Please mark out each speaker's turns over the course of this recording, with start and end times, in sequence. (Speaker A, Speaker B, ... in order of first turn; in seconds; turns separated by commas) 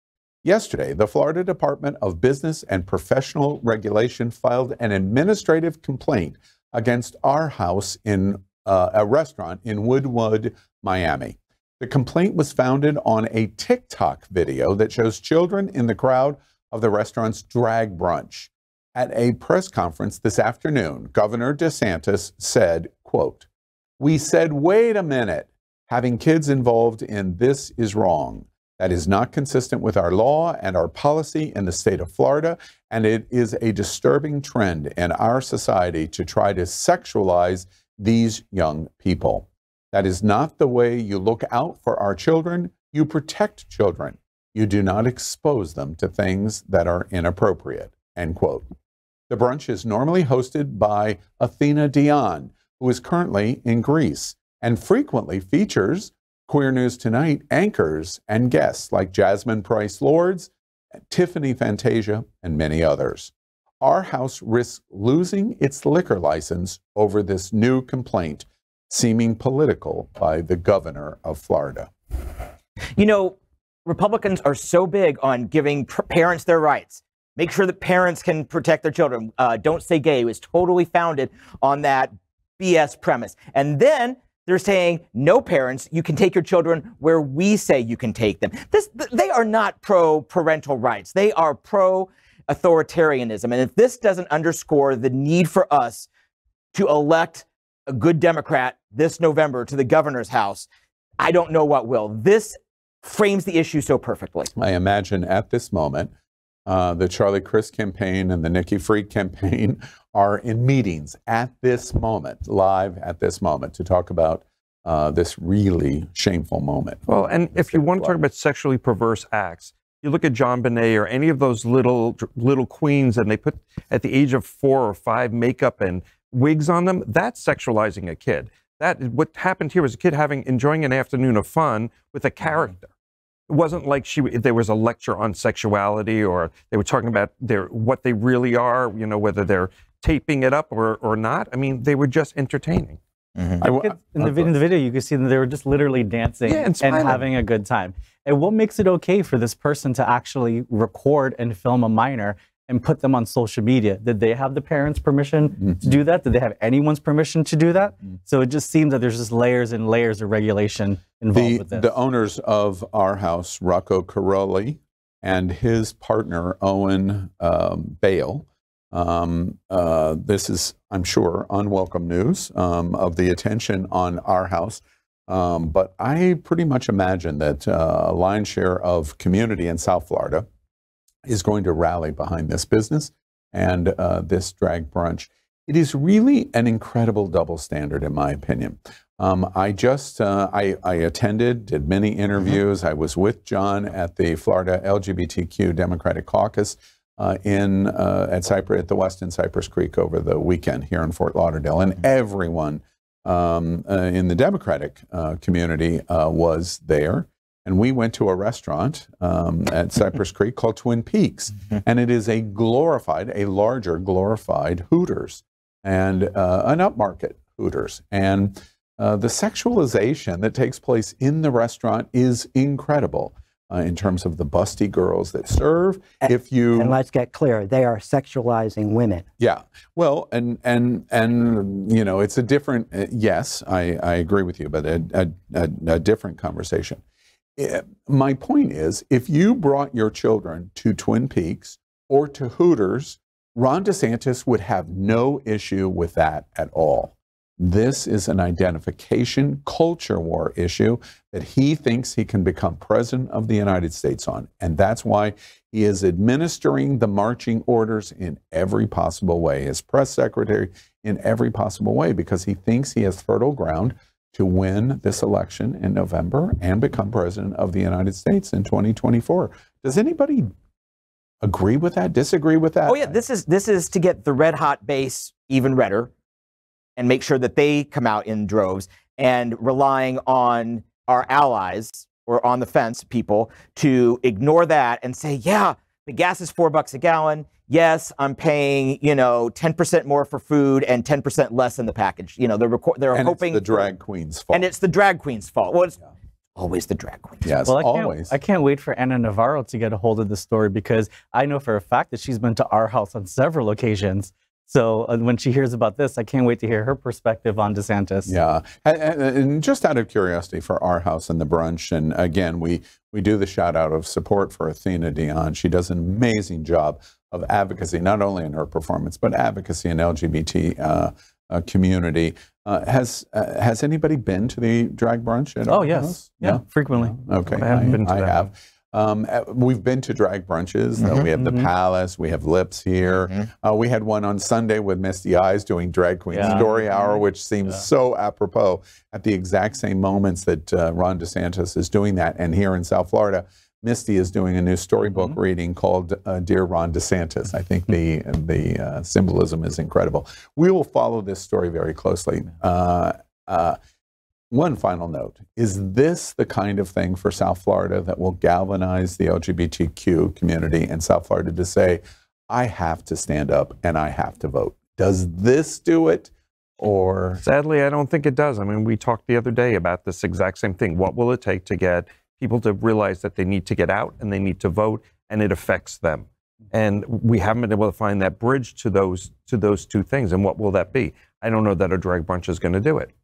Speaker A: 0.4-23.5, Speaker A: 24.0-48.7, Speaker A: 49.3-60.5, Speaker A: 61.1-71.9, Speaker B: 73.0-96.1, Speaker B: 96.7-100.7, Speaker B: 101.2-104.5, Speaker A: 104.6-106.1, Speaker A: 106.7-118.2, Speaker C: 117.1-132.9, Speaker C: 133.5-143.0, Speaker A: 143.6-144.5, Speaker D: 143.6-161.9, Speaker C: 146.5-147.3, Speaker A: 161.3-180.5, Speaker A: 181.3-227.0, Speaker E: 226.2-229.2, Speaker A: 229.4-237.0, Speaker A: 237.6-270.5, Speaker A: 271.4-273.2, Speaker B: 272.9-276.1, Speaker B: 277.0-293.9, Speaker A: 293.1-294.7, Speaker B: 294.5-296.0, Speaker B: 296.6-297.6, Speaker A: 297.4-298.4, Speaker D: 297.6-308.4, Speaker A: 308.3-353.8, Speaker D: 325.7-328.0, Speaker C: 327.5-328.5, Speaker B: 331.0-331.3, Speaker D: 331.4-331.7, Speaker D: 336.3-337.2, Speaker A: 354.5-367.4, Speaker C: 367.4-383.1